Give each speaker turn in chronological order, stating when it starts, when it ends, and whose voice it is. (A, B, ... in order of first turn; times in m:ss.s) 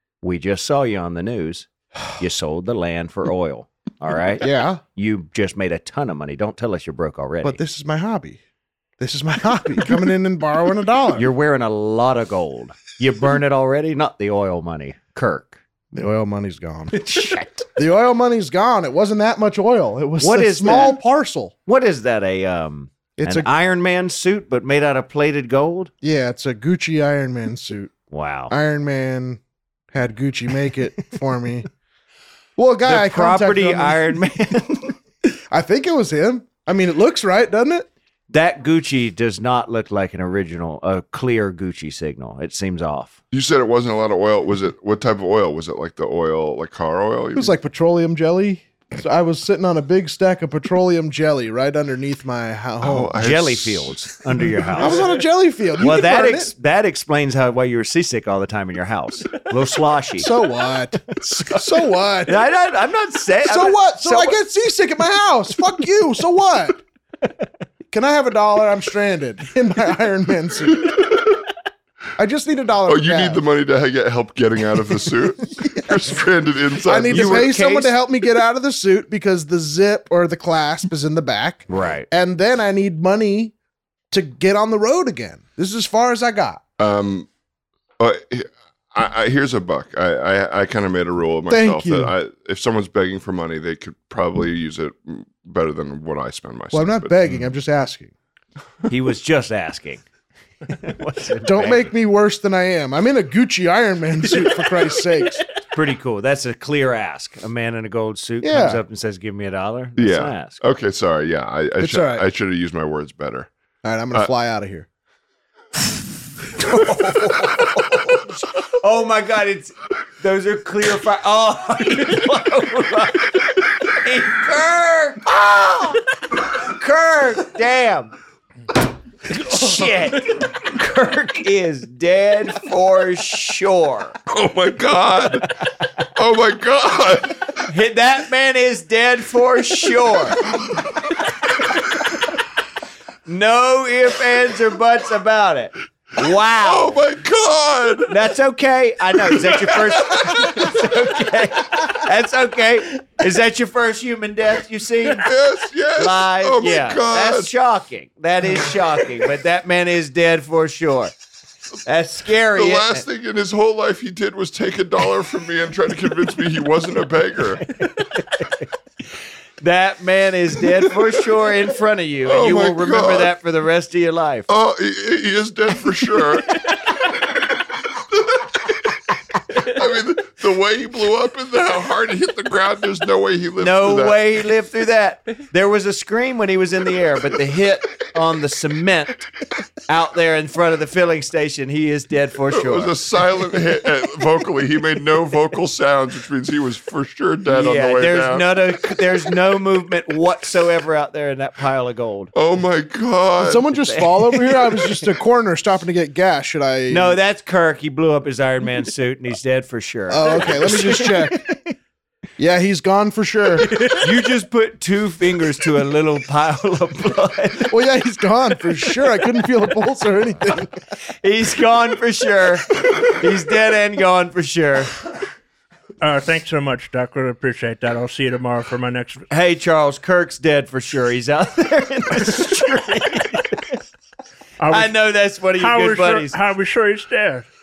0:00.2-0:07.6 A
0:04.4-0:04.8 B
0:07.4-0:08.4 B
0:09.0-0:11.3 B
0:11.2-0:15.6 A
0:15.9-0:17.0 B
0:16.9-0:17.7 A
0:17.8-0:21.5 B
0:20.2-0:21.0 A
0:21.7-0:25.9 A
0:23.2-0:23.5 B
0:26.0-0:27.9 B
0:28.1-0:28.5 A
0:28.5-0:29.4 B
0:29.9-0:31.7 B
0:32.6-0:34.2 B
0:32.8-0:35.0 A
0:35.5-0:37.9 B
0:38.3-0:43.2 A
0:43.3-0:47.5 C
0:47.4-0:53.2 B
0:52.8-0:54.1 C
0:53.2-0:55.0 A
0:54.8-0:56.5 B
0:55.8-1:00.3 A
1:00.2-1:02.4 B
1:02.3-1:04.4 A
1:03.4-1:06.8 B
1:07.9-1:11.0 B
1:12.2-1:13.4 B
1:12.9-1:17.5 C
1:15.6-1:16.0 B
1:16.8-1:23.5 B
1:17.1-1:18.0 A
1:21.7-1:22.1 A
1:24.1-1:26.6 B
1:26.8-1:27.3 C
1:28.0-1:37.3 C
1:31.5-1:32.1 B
1:36.7-1:38.1 B
1:38.9-1:40.0 A
1:40.7-1:41.9 A
1:41.5-1:45.4 B
1:45.7-1:50.6 A
1:48.4-1:48.8 B
1:50.0-1:53.5 C
1:51.8-1:52.2 B
1:53.8-1:54.9 B
1:56.6-2:08.2 A
2:09.3-2:14.2 A
2:14.3-2:15.5 C
2:16.2-2:17.5 C
2:17.7-2:20.4 A
2:23.3-2:27.0 A
2:26.6-2:28.2 C
2:28.1-2:35.2 A
2:29.7-2:30.6 C
2:35.1-2:37.5 C
2:36.0-2:41.1 A
2:41.9-2:43.0 A
2:42.5-2:47.7 C
2:47.8-2:48.6 A
2:49.6-2:54.5 A
2:52.3-2:53.3 C
2:54.5-2:56.8 C
2:59.6-3:04.2 C
3:03.6-3:09.3 A
3:09.9-3:13.0 A
3:12.5-3:18.6 C
3:17.5-3:22.3 A
3:22.3-3:23.7 C
3:23.4-3:27.2 B
3:23.7-3:25.0 A
3:26.9-3:31.7 A
3:30.1-3:31.4 B
3:32.4-3:33.7 B
3:33.7-3:34.1 D
3:33.9-3:37.8 A
3:37.7-3:40.8 B
3:41.2-3:45.0 A
3:46.0-3:49.3 D
3:49.3-3:53.8 A
3:54.6-3:57.5 D
3:54.7-3:56.4 A